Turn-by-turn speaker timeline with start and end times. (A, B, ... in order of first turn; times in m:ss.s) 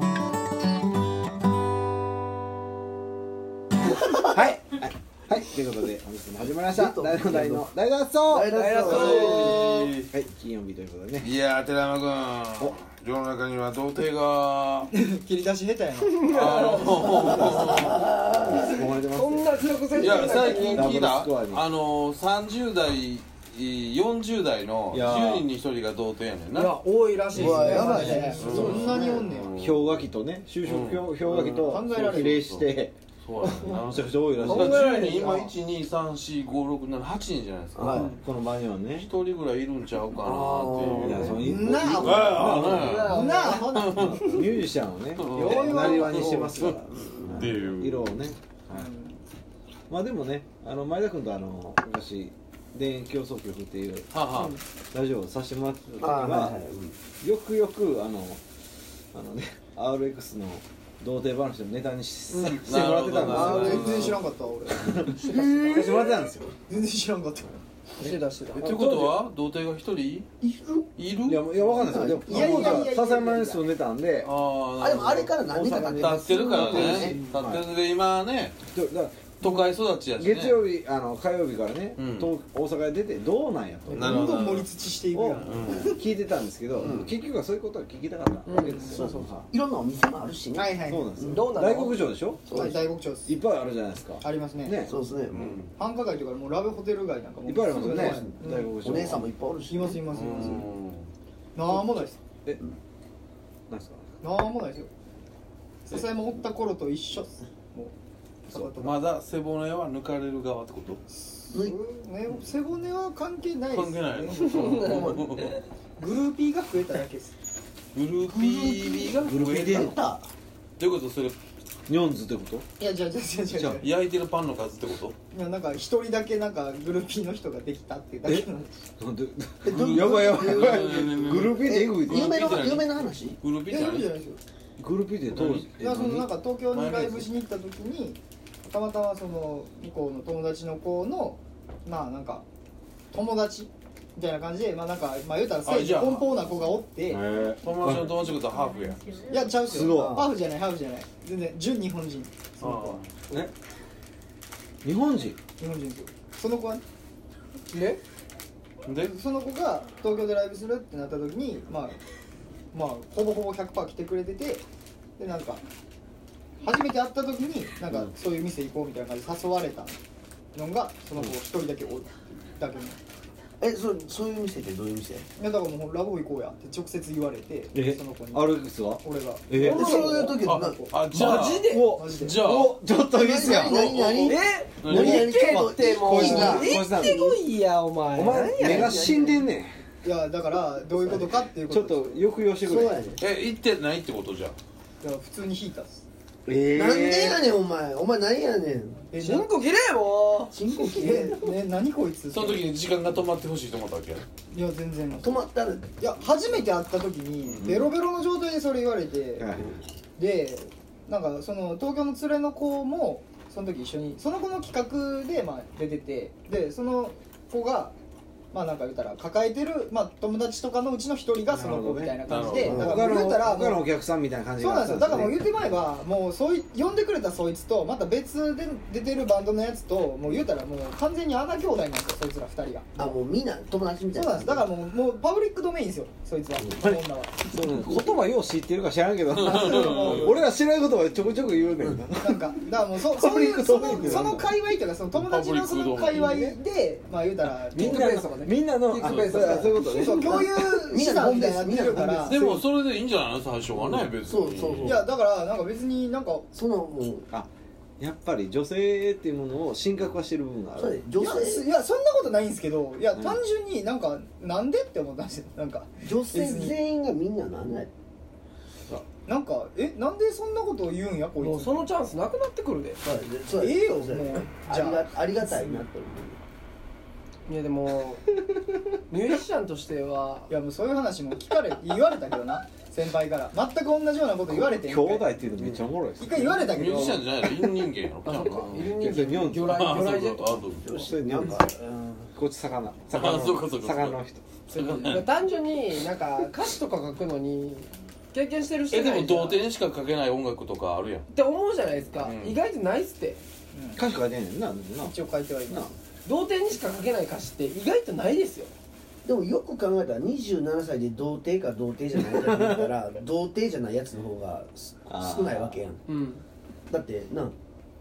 0:03.8-0:04.5 A
0:04.2-0:09.5 B
0:06.7-0:07.7 A
0:08.3-0:09.7 A
0:08.5-0:09.7 C
0:08.8-0:10.1 D
0:10.1-0:11.3 B
0:11.2-0:14.9 D
0:14.9-0:16.9 E
0:16.0-0:17.5 C
0:16.3-0:18.0 D
0:17.2-0:18.7 A
0:17.2-0:21.7 B
0:18.4-0:21.0 C
0:20.0-0:26.8 D
0:24.9-0:25.4 B
0:26.5-0:28.7 C
0:27.3-0:29.3 A
0:27.3-0:29.0 B
0:27.4-0:29.5 E
0:28.4-0:30.0 D
0:29.6-0:35.0 B
0:30.6-0:31.1 D
0:31.5-0:32.4 E
0:32.4-0:32.6 D
0:33.2-0:38.2 D
0:34.5-0:35.5 C
0:35.2-0:35.4 E
0:37.8-0:38.1 A
0:37.8-0:39.1 B
0:38.9-0:44.3 D
0:40.2-0:41.9 A
0:40.9-0:43.2 B
0:41.3-0:44.4 E
0:42.8-0:43.7 C
0:43.9-0:48.9 B
0:45.2-0:48.2 D
0:45.3-0:46.4 E
0:46.2-0:47.4 A
0:48.7-0:49.2 E
0:49.9-0:54.1 B
0:54.1-0:54.6 D
0:54.3-0:54.6 C
0:54.9-0:56.6 B
0:56.0-0:57.0 A
0:57.2-0:58.4 B
0:59.1-1:06.5 B
1:02.3-1:02.6 C
1:02.6-1:04.2 D
1:03.2-1:06.1 E
1:03.4-1:04.1 A
1:05.3-1:06.0 A
1:06.7-1:07.6 E
1:08.0-1:08.8 C
1:08.0-1:09.2 B
1:08.6-1:10.3 D
1:10.4-1:10.9 A
1:11.0-1:11.4 D
1:11.2-1:14.3 B
1:11.7-1:12.9 A
1:12.3-1:13.6 E
1:14.2-1:18.6 D
1:14.8-1:17.3 A
1:16.5-1:17.7 B
1:18.7-1:19.6 B
1:19.4-1:20.6 D
1:20.2-1:29.5 B
1:22.0-1:22.3 D
1:23.9-1:26.0 E
1:23.9-1:24.7 D
1:25.4-1:25.9 D
1:26.8-1:27.1 A
1:28.5-1:28.8 C
1:28.6-1:29.2 E
1:28.8-1:31.5 A
1:30.5-1:31.2 E
1:30.8-1:34.9 B
1:31.2-1:32.1 C
1:32.5-1:32.8 A
1:32.5-1:33.4 E
1:34.2-1:34.8 E
1:34.8-1:35.6 A
1:35.3-1:35.7 D
1:35.8-1:38.8 E
1:37.4-1:39.3 B
1:37.7-1:40.0 A
1:39.7-1:40.7 E
1:40.1-1:41.1 D
1:41.5-1:42.2 E
1:43.7-1:44.0 B
1:44.2-1:44.9 E
1:45.8-1:47.9 E
1:48.5-1:48.9 E
1:48.5-1:51.0 D
1:51.2-1:55.4 E
1:51.5-1:51.8 A
1:53.7-1:55.6 D
1:54.8-1:55.3 A
1:56.0-1:57.4 E
1:57.9-2:00.0 D
1:58.3-2:00.2 A
1:59.2-2:00.0 B
2:00.8-2:01.4 D
2:01.9-2:02.7 B
2:02.8-2:03.9 E
2:03.5-2:03.8 B
2:03.8-2:05.2 D
2:05.3-2:08.7 E
2:09.0-2:12.4 B
2:09.6-2:13.4 A
2:09.9-2:14.1 D
2:13.7-2:14.4 E
2:14.8-2:16.3 B
2:15.3-2:15.7 D
2:15.7-2:22.4 E
2:16.7-2:17.3 D
2:23.1-2:27.2 E
2:25.6-2:26.3 D
2:27.1-2:28.3 B
2:27.6-2:29.3 D
2:29.3-2:33.0 E
2:29.6-2:30.3 B
2:29.8-2:30.2 A
2:32.6-2:33.5 D
2:34.8-2:35.4 B
2:35.6-2:36.8 E
2:37.7-2:38.0 C
2:38.8-2:39.1 D
2:39.1-2:42.0 E
2:42.7-2:44.6 E
2:45.2-2:45.6 E
2:46.6-2:50.0 E
2:50.5-2:53.0 E
2:53.6-2:55.3 A
2:55.4-3:00.9 E
2:57.7-3:00.0 B
2:59.5-3:00.8 A
2:59.6-3:00.4 C
3:00.4-3:02.8 D
3:01.1-3:01.9 C
3:01.7-3:04.3 B
3:01.8-3:02.4 E
3:03.1-3:07.1 A
3:04.0-3:04.3 D
3:04.2-3:09.3 C
3:04.8-3:05.3 D
3:04.9-3:07.4 B
3:08.1-3:09.7 B
3:08.6-3:09.2 A
3:10.0-3:12.4 E
3:11.1-3:13.0 B
3:12.6-3:13.2 A
3:13.2-3:14.6 D
3:15.0-3:15.9 E
3:16.5-3:17.4 B
3:16.7-3:19.0 A
3:19.1-3:19.5 E
3:19.2-3:20.5 C
3:20.5-3:21.6 A
3:20.9-3:22.6 E
3:22.3-3:24.2 D
3:24.5-3:25.5 E
3:25.2-3:26.0 A
3:26.0-3:29.5 E
3:27.6-3:27.9 B
3:29.4-3:29.8 B
3:30.2-3:37.9 E
3:38.5-3:43.8 E
3:41.5-3:45.7 B
3:42.2-3:43.0 D
3:42.5-3:43.2 A
3:44.6-3:53.1 E
3:53.0-3:54.6 A
3:54.1-3:57.4 E
3:56.8-4:02.5 B
3:59.3-4:00.3 D
3:59.5-4:00.3 E
4:02.2-4:08.2 E
4:03.1-4:04.5 B
4:05.1-4:06.5 D
4:07.7-4:10.6 B
4:07.7-4:10.0 C
4:09.0-4:09.5 D
4:09.9-4:12.6 E
4:10.0-4:12.4 A
4:12.2-4:15.0 D
4:14.2-4:15.1 A
4:14.8-4:16.5 E
4:16.5-4:17.3 A
4:18.0-4:21.0 B
4:20.8-4:21.6 A
4:21.2-4:26.8 E
4:23.1-4:23.4 B
4:26.0-4:27.9 A
4:29.2-4:31.8 E
4:31.4-4:33.0 C
4:33.0-4:36.4 A
4:33.6-4:35.7 E
4:37.5-4:38.3 C
4:39.1-4:40.5 C
4:40.5-4:45.3 E
4:44.5-4:47.8 B
4:46.2-4:47.2 E
4:46.5-4:48.7 D
4:48.2-4:50.6 C
4:48.4-4:50.3 B
4:49.7-4:51.1 D
4:50.8-4:52.3 A
4:50.9-4:51.7 B
4:52.3-4:55.0 B
4:53.1-4:54.2 D
4:54.7-4:55.2 E
4:54.7-4:55.3 D
4:55.0-4:59.6 C
4:58.9-5:01.2 D
5:01.3-5:03.4 C
5:02.2-5:02.6 D
5:03.7-5:04.0 E
5:03.9-5:05.9 B
5:05.0-5:05.9 E
5:06.2-5:08.7 C
5:09.2-5:16.0 A
5:12.2-5:12.9 B
5:15.1-5:15.8 B
5:16.1-5:16.4 C
5:16.9-5:17.5 A